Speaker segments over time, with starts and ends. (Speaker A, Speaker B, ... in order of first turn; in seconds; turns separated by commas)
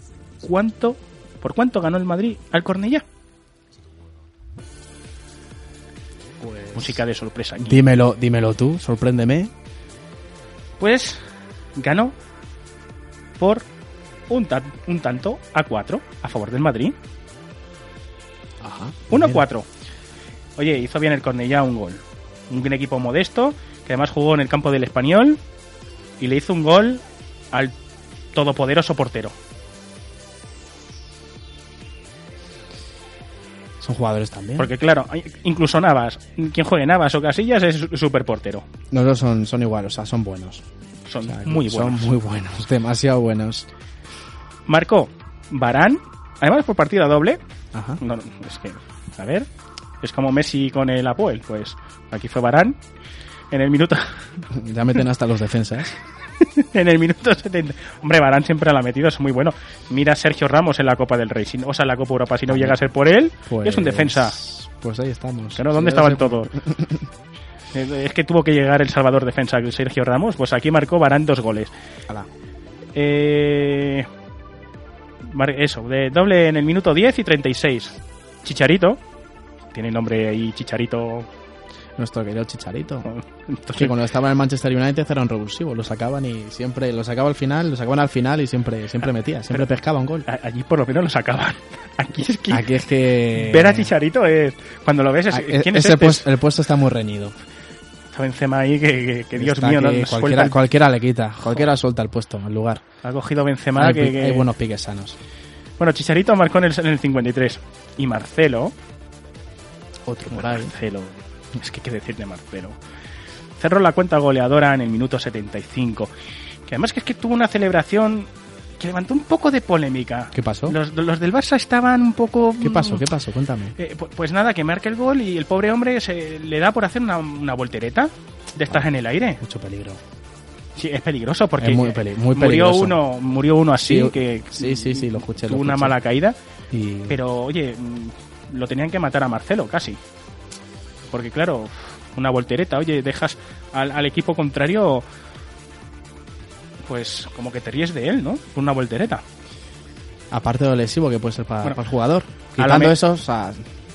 Speaker A: 0.4-3.0, Speaker B: 6.4-7.0, Speaker A: 6.7-7.8, Speaker B: 7.7-9.5, Speaker A: 10.8-11.2, Speaker A: 11.8-12.1, Speaker A: 13.4-13.7, Speaker A: 14.3-16.9, Speaker B: 18.6-19.4, Speaker A: 19.1-19.7, Speaker A: 20.6-25.4, Speaker A: 26.2-27.7, Speaker A: 28.3-29.3, Speaker B: 33.8-34.7, Speaker A: 34.6-38.6, Speaker B: 38.9-40.6, Speaker A: 41.1-42.1, Speaker B: 41.2-43.7, Speaker A: 44.7-47.4, Speaker B: 47.7-48.0, Speaker A: 48.0-49.5, Speaker A: 50.0-52.8, Speaker A: 53.5-54.4, Speaker B: 54.5-56.0, Speaker A: 56.4-64.4, Speaker B: 62.5-62.8, Speaker B: 63.5-67.1, Speaker A: 65.5-66.5, Speaker A: 67.7-71.7, Speaker A: 72.9-74.1, Speaker A: 75.2-79.0, Speaker A: 79.7-81.3, Speaker B: 82.0-83.1, Speaker A: 83.0-83.9, Speaker B: 83.7-90.2, Speaker A: 90.2-92.7, Speaker B: 92.5-93.9, Speaker A: 93.3-96.3, Speaker B: 95.3-97.3, Speaker A: 98.1-100.6, Speaker B: 99.3-102.8, Speaker A: 103.0-104.5, Speaker B: 103.8-105.2, Speaker A: 105.8-108.7, Speaker B: 110.0-110.7, Speaker A: 110.3-112.8, Speaker A: 113.6-116.1, Speaker A: 116.7-123.0, Speaker B: 120.3-120.8, Speaker B: 122.6-123.7, Speaker A: 123.8-129.4, Speaker B: 129.4-130.0, Speaker A: 130.8-136.3, Speaker B: 131.6-133.0, Speaker B: 133.8-136.0, Speaker B: 136.7-137.2, Speaker A: 137.1-140.0, Speaker A: 141.1-145.1, Speaker A: 146.8-149.2, Speaker B: 150.3-153.7, Speaker A: 152.6-152.9